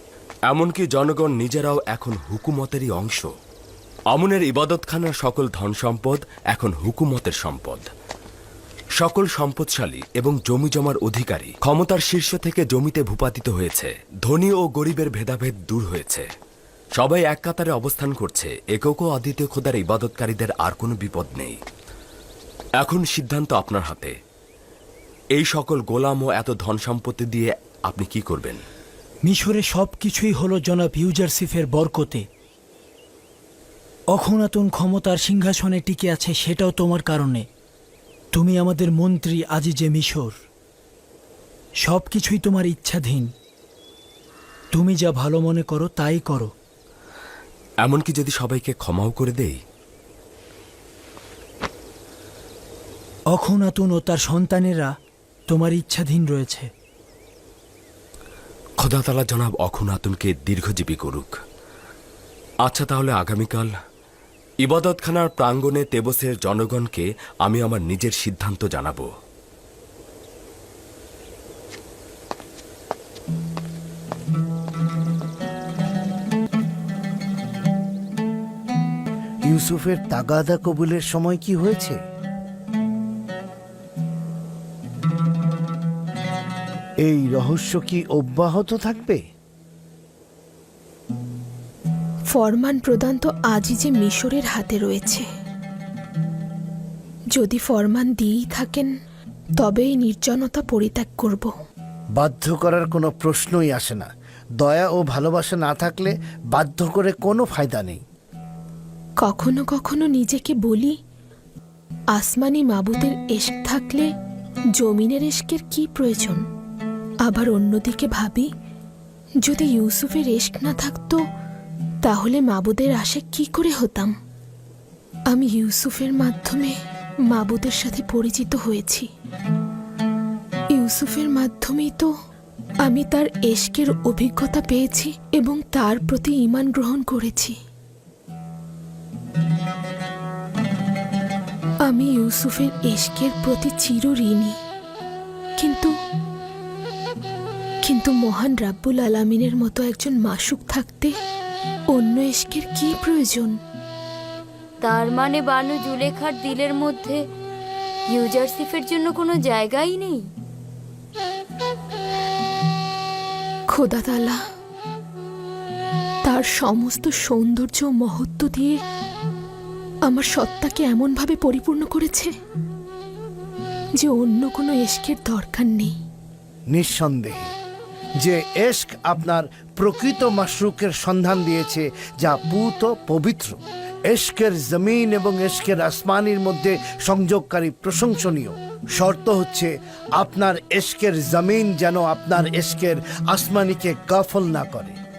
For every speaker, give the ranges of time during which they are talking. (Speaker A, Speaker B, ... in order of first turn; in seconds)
Speaker A: 0.5-3.3, 4.1-7.9, 9.0-16.3, 17.0-21.6, 22.8-24.1, 25.4-28.6, 47.8-49.6, 58.8-61.3, 62.6-63.7, 64.6-69.1
Speaker B: 29.3-32.2, 34.1-37.5, 38.3-40.4, 41.8-43.3, 44.7-46.5, 53.3-54.9, 55.5-56.7
Speaker C: 79.5-82.0, 87.0-89.2, 102.2-104.1, 104.6-108.0, 176.7-177.5, 178.2-195.0
Speaker D: 92.3-95.2, 97.3-98.9, 99.6-101.5, 109.2-111.0, 112.1-114.1, 114.8-116.4, 117.2-118.5, 119.4-121.2, 122.0-124.1, 125.3-126.8, 127.3-129.1, 130.7-132.1, 132.8-137.5, 141.9-144.6, 145.6-145.9, 147.8-151.1, 151.9-153.5, 163.7-164.4, 166.2-168.8, 170.1-172.3, 174.0-175.9
Speaker E: 154.8-157.2, 158.1-160.2